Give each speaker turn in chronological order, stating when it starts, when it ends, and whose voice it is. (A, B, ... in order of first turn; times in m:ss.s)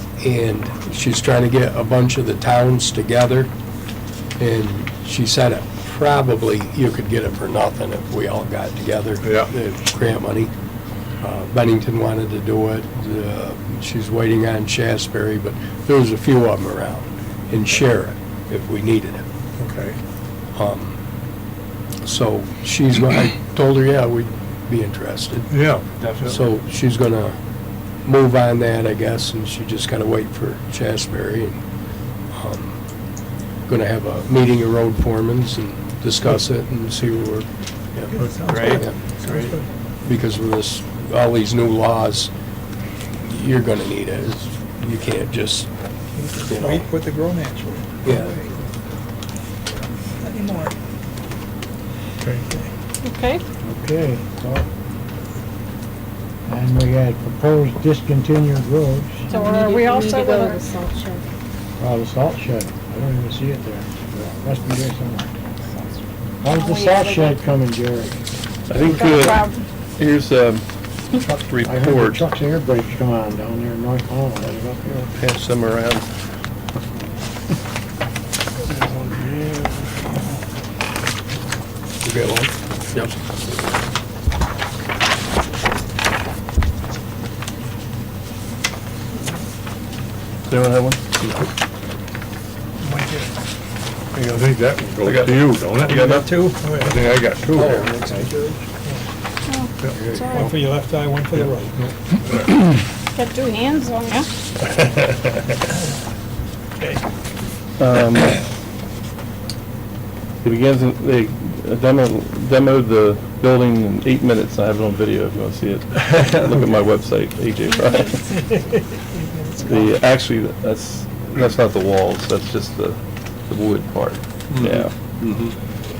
0:00.2-0:03.5 A
0:04.4-0:10.5 A
0:09.2-0:09.5 B
0:11.2-0:19.2 A
0:19.6-0:20.0 B
0:20.6-0:21.0 A
0:22.0-0:25.5 A
0:25.5-0:26.4 B
0:26.0-0:26.3 C
0:26.3-0:27.4 A
0:28.0-0:31.6 A
0:32.3-0:32.8 A
0:33.7-0:39.2 A
0:38.1-0:39.7 D
0:38.2-0:38.8 B
0:38.5-0:38.8 C
0:40.0-0:42.3 A
0:43.2-0:45.7 A
0:46.2-0:48.6 D
0:46.4-0:46.9 A
0:48.0-0:48.4 A
0:50.2-0:50.7 D
0:53.0-0:53.4 E
0:53.6-0:54.7 F
0:56.5-0:59.4 F
0:59.3-1:00.7 E
0:59.4-1:01.2 C
1:01.8-1:05.3 F
1:06.4-1:08.3 F
1:06.4-1:07.4 E
1:08.7-1:12.2 G
1:08.8-1:09.6 E
1:09.0-1:09.4 F
1:11.6-1:15.0 F
1:14.9-1:16.1 G
1:18.8-1:19.7 F
1:22.0-1:23.0 A
1:30.5-1:31.1 G
1:32.8-1:33.3 D
1:34.2-1:36.4 G
1:34.2-1:38.3 B
1:35.8-1:37.1 D
1:37.4-1:38.5 A
1:38.8-1:39.1 D
1:39.5-1:40.5 E
1:39.8-1:40.1 B
1:39.9-1:40.5 A
1:40.3-1:41.8 D
1:41.7-1:42.6 B
1:43.1-1:44.3 E
1:47.8-1:48.4 G
1:50.4-1:58.6 G
1:58.4-1:59.6 D
1:59.6-2:04.9 G
2:04.5-2:05.5 A
2:04.6-2:04.9 B